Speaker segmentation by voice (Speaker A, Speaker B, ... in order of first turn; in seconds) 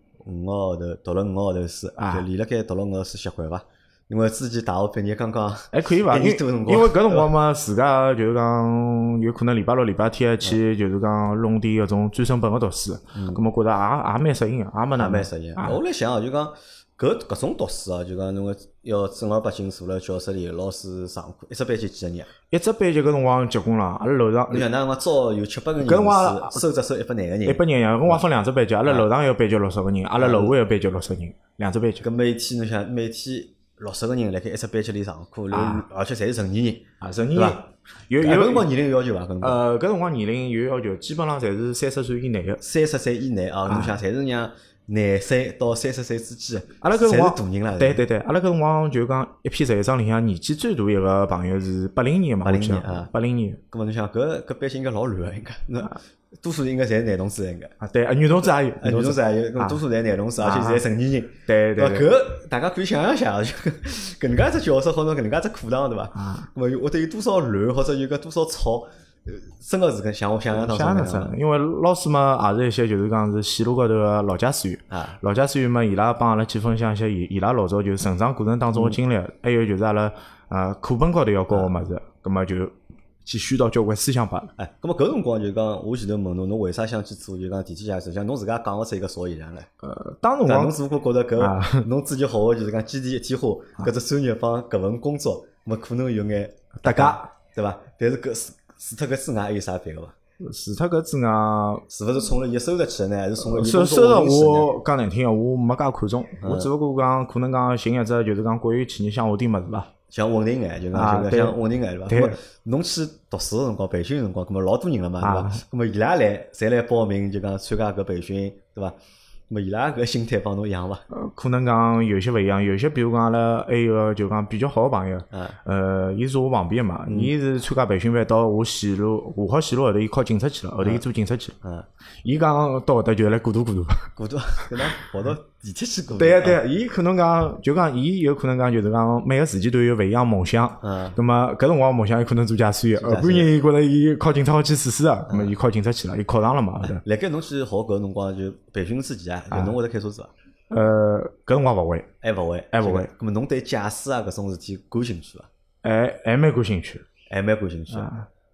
Speaker A: 0.2-7.3, 13.1-13.4, 15.0-22.3, 24.5-28.2, 30.2-30.6, 32.0-37.7, 38.2-39.6, 42.6-48.0, 52.4-53.1, 53.7-57.7, 58.8-71.3, 74.9-75.2, 81.5-81.8, 84.6-89.7, 90.5-100.2, 101.9-104.7, 106.4-106.7, 110.1-119.0, 119.5-121.0, 125.3-125.6, 127.1-127.3, 131.6-131.9, 134.2-136.6, 140.8-141.2, 143.0-143.5, 145.3-145.5, 146.8-150.3, 152.2-155.5, 157.3-158.1
Speaker B: 2.0-2.2, 5.7-15.8, 22.5-24.7, 25.8-26.6, 27.5-32.0, 35.5-35.9, 37.0-38.7, 39.4-42.6, 43.7-44.0, 46.8-53.6, 57.8-59.8, 60.4-60.8, 61.5-62.1, 66.2-66.5, 70.5-84.5, 89.8-90.8, 91.4-91.8, 96.8-97.2, 100.4-101.8, 103.4-109.9, 110.9-112.4, 115.2-115.6, 121.1-131.6, 132.2-134.1, 136.2-147.0, 150.7-152.1, 152.7-153.1, 155.8-157.1, 157.9-158.3